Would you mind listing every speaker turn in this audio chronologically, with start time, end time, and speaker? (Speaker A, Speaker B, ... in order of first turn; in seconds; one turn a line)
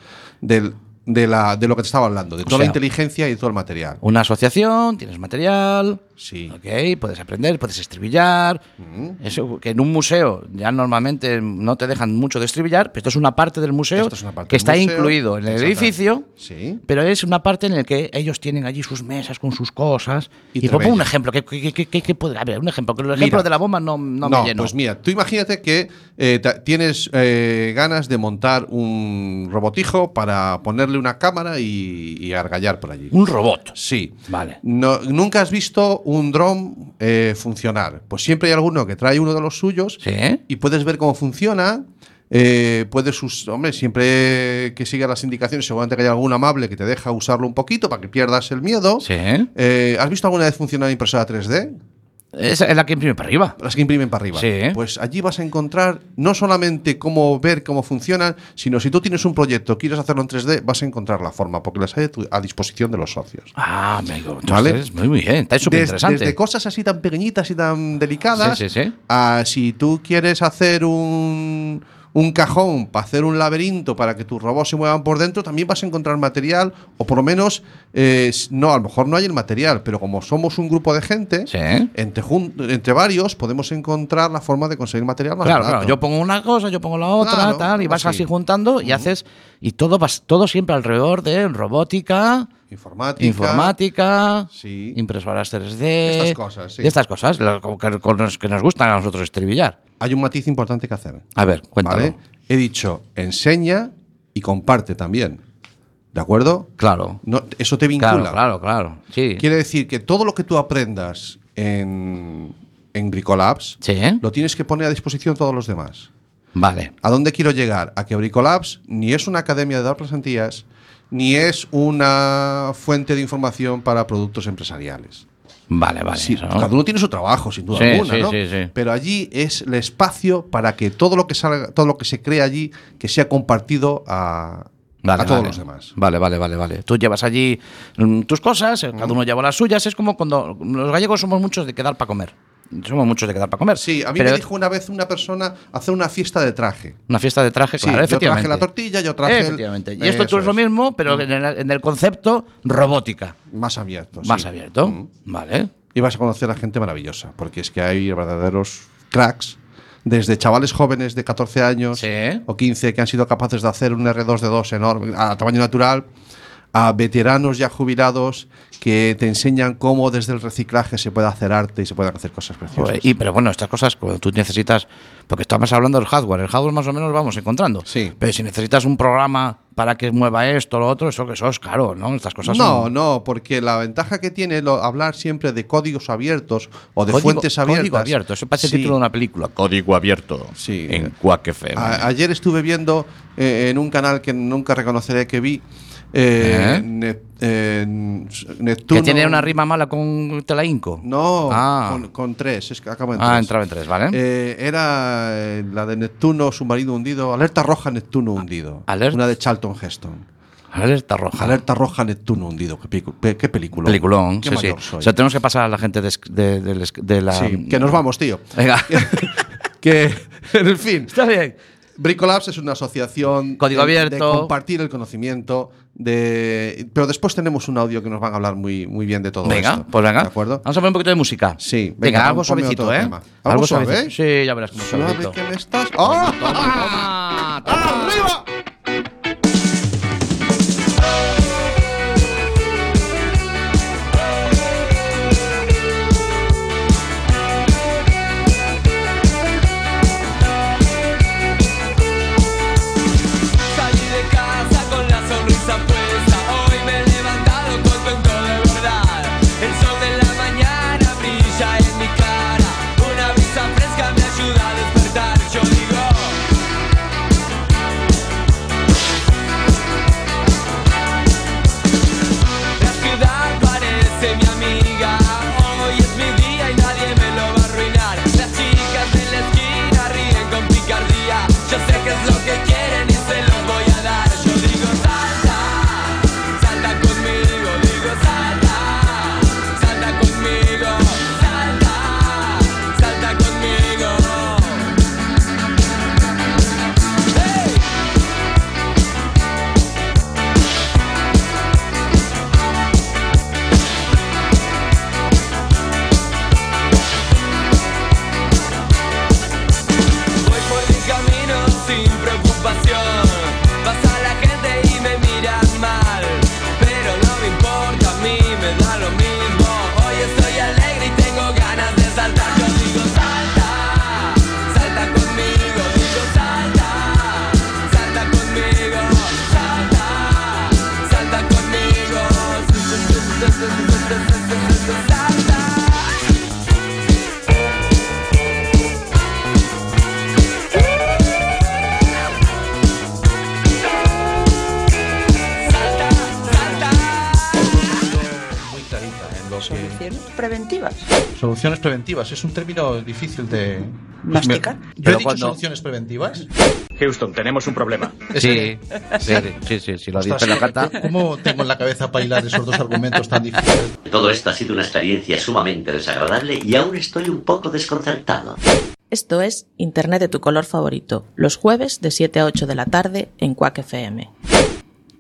Speaker A: 0.4-4.0
Speaker B: 2.5-2.8
Speaker B: 4.0-8.6
Speaker A: 6.2-6.5
Speaker A: 8.8-9.2
Speaker B: 9.2-16.2
Speaker A: 13.9-16.8
Speaker B: 16.9-24.7
Speaker A: 20.5-21.1
Speaker A: 23.1-23.5
Speaker A: 24.2-33.1
Speaker B: 33.1-33.7
Speaker A: 33.7-51.8
Speaker B: 34.3-34.6
Speaker B: 40.0-40.4
Speaker B: 49.0-49.5
Speaker B: 52.3-53.5
Speaker A: 53.6-63.5
Speaker B: 54.3-54.8
Speaker B: 63.5-66.3
Speaker A: 64.5-64.8
Speaker A: 65.6-86.0
Speaker B: 68.4-68.9
Speaker B: 81.5-81.9
Speaker B: 85.4-92.5
Speaker A: 87.2-88.3
Speaker A: 88.8-89.1
Speaker A: 92.7-93.8
Speaker B: 93.2-99.8
Speaker A: 94.5-95.0
Speaker A: 96.0-96.9
Speaker A: 100.0-101.2
Speaker B: 101.3-102.1
Speaker A: 101.8-105.4
Speaker A: 106.1-106.7
Speaker B: 106.8-107.2
Speaker A: 107.2-108.4
Speaker B: 108.0-109.4
Speaker A: 109.4-116.1
Speaker B: 113.8-114.2
Speaker B: 116.5-116.9
Speaker A: 117.0-125.2
Speaker B: 125.7-126.7
Speaker A: 126.1-135.9
Speaker B: 127.7-128.7
Speaker B: 135.0-144.4
Speaker A: 143.8-147.0
Speaker B: 147.1-148.7
Speaker A: 147.8-151.2
Speaker B: 149.2-153.3
Speaker A: 153.5-155.1
Speaker B: 154.2-155.7
Speaker A: 155.9-166.1
Speaker B: 161.9-162.4
Speaker A: 166.7-173.1
Speaker B: 172.7-182.9
Speaker A: 177.8-178.1
Speaker A: 182.4-188.9
Speaker B: 187.1-192.1
Speaker A: 190.6-191.1
Speaker A: 191.7-199.5
Speaker B: 196.4-196.8
Speaker B: 198.9-202.0
Speaker A: 201.0-203.5
Speaker B: 203.2-204.2
Speaker A: 204.1-210.2
Speaker B: 208.9-209.2
Speaker B: 210.7-211.6
Speaker A: 211.4-215.1
Speaker B: 213.8-218.0
Speaker A: 217.3-221.1
Speaker B: 218.5-219.4
Speaker B: 221.1-221.6
Speaker A: 222.0-230.6
Speaker B: 223.6-224.5
Speaker B: 229.4-235.4
Speaker A: 231.6-234.1
Speaker A: 234.7-238.4
Speaker B: 236.0-238.2
Speaker C: 253.6-266.4
Speaker C: 272.8-294.9
Speaker C: 297.3-297.9
Speaker C: 310.4-336.2
Speaker C: 345.6-348.0
Speaker D: 348.4-349.9
Speaker E: 349.6-351.1
Speaker D: 351.4-356.4
Speaker E: 354.2-355.0
Speaker B: 355.1-355.5
Speaker B: 358.3-360.9
Speaker D: 358.4-358.7
Speaker D: 360.2-363.9
Speaker F: 364.1-368.6
Speaker G: 369.1-374.3